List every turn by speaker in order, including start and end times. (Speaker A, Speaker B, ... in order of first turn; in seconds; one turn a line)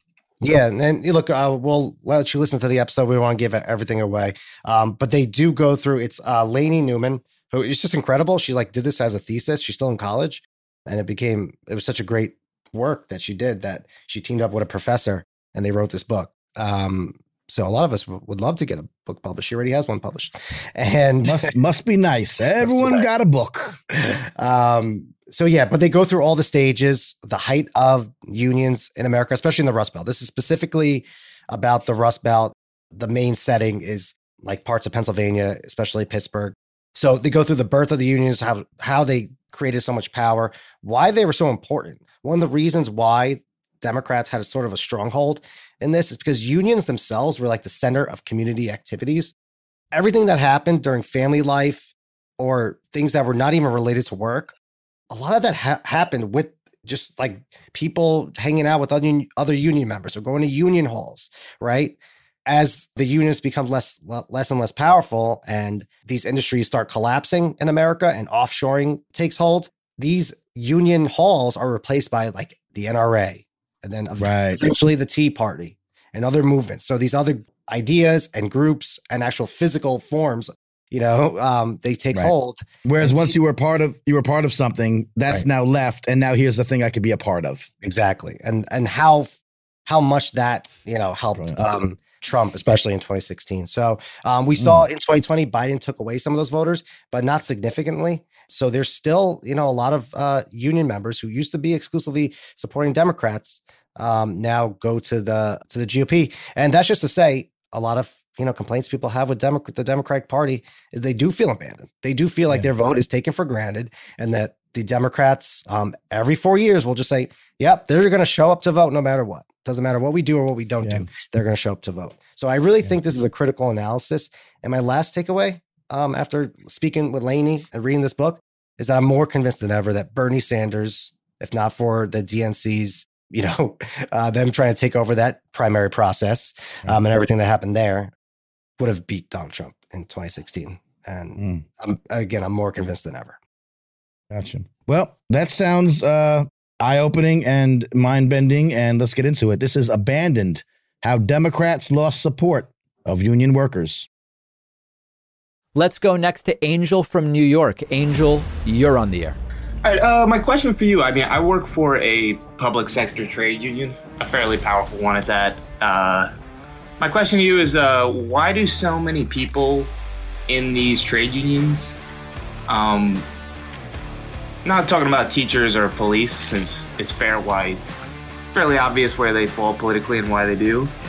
Speaker A: 0.4-21.5
Speaker B: 21.2-23.8
Speaker A: 22.5-23.1
Speaker A: 23.9-49.3
Speaker A: 49.9-54.5
Speaker A: 55.1-83.3
Speaker B: 74.2-74.7
Speaker B: 82.8-87.7
Speaker A: 87.8-138.1
Speaker B: 91.3-91.6
Speaker B: 94.6-94.8
Speaker B: 120.8-121.1
Speaker A: 138.8-143.4
Speaker B: 141.4-141.6
Speaker B: 144.3-154.1
Speaker C: 155.7-159.4
Speaker D: 159.8-166.3
Speaker D: 167.0-169.9
Speaker D: 170.5-172.0
Speaker D: 172.7-173.2
Speaker D: 174.6-177.8
Speaker D: 178.5-180.9